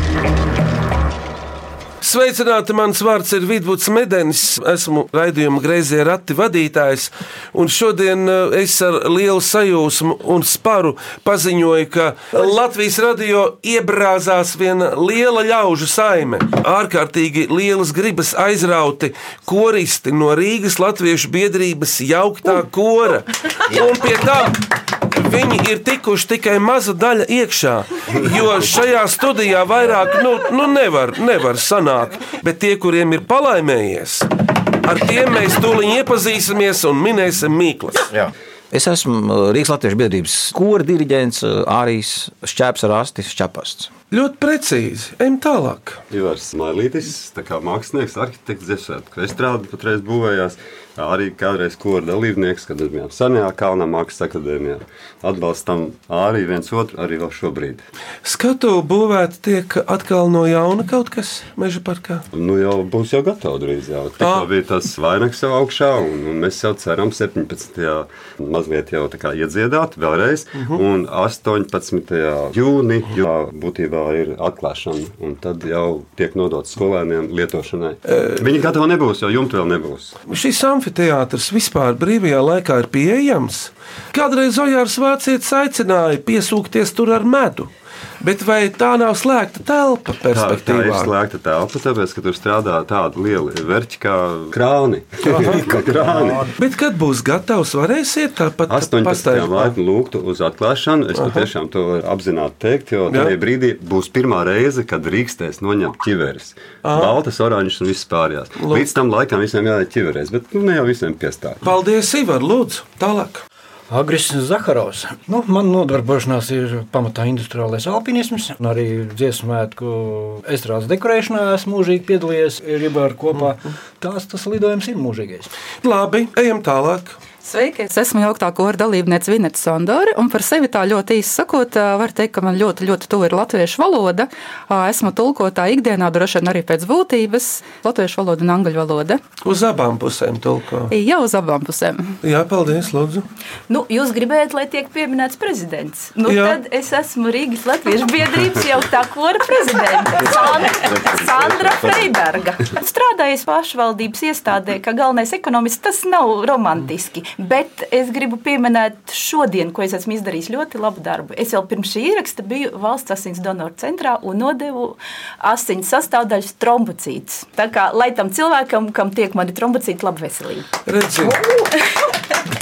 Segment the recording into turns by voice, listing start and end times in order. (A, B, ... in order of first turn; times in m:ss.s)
0:02.0-0:24.6 A
0:23.7-0:24.0 B
0:25.1-0:34.3 A
0:34.8-0:38.1 A
0:38.1-0:43.9 B
0:44.1-0:46.0 A
0:46.1-0:57.8 C
0:58.2-1:02.2 A
1:02.3-1:20.1 C
1:04.2-1:04.5 A
1:10.6-1:10.8 A
1:18.0-1:18.6 A
1:20.3-1:31.1 A
1:30.3-1:36.5 C
1:35.2-1:35.7 A
1:36.0-1:36.4 D
1:36.6-1:39.8 A
1:38.7-1:51.6 C
1:41.1-1:41.5 A
1:43.1-1:43.3 A
1:46.8-1:47.2 A
1:48.6-1:48.9 A
1:51.6-1:53.4 A
1:53.9-2:05.5 D
2:05.8-2:07.2 A
2:07.4-2:19.2 E
2:19.4-2:20.9 A
2:20.9-2:22.2 E
2:22.2-2:23.2 A
2:23.7-2:50.7 F
2:26.2-2:26.6 A
2:30.2-2:32.2 C
2:50.9-2:51.5 A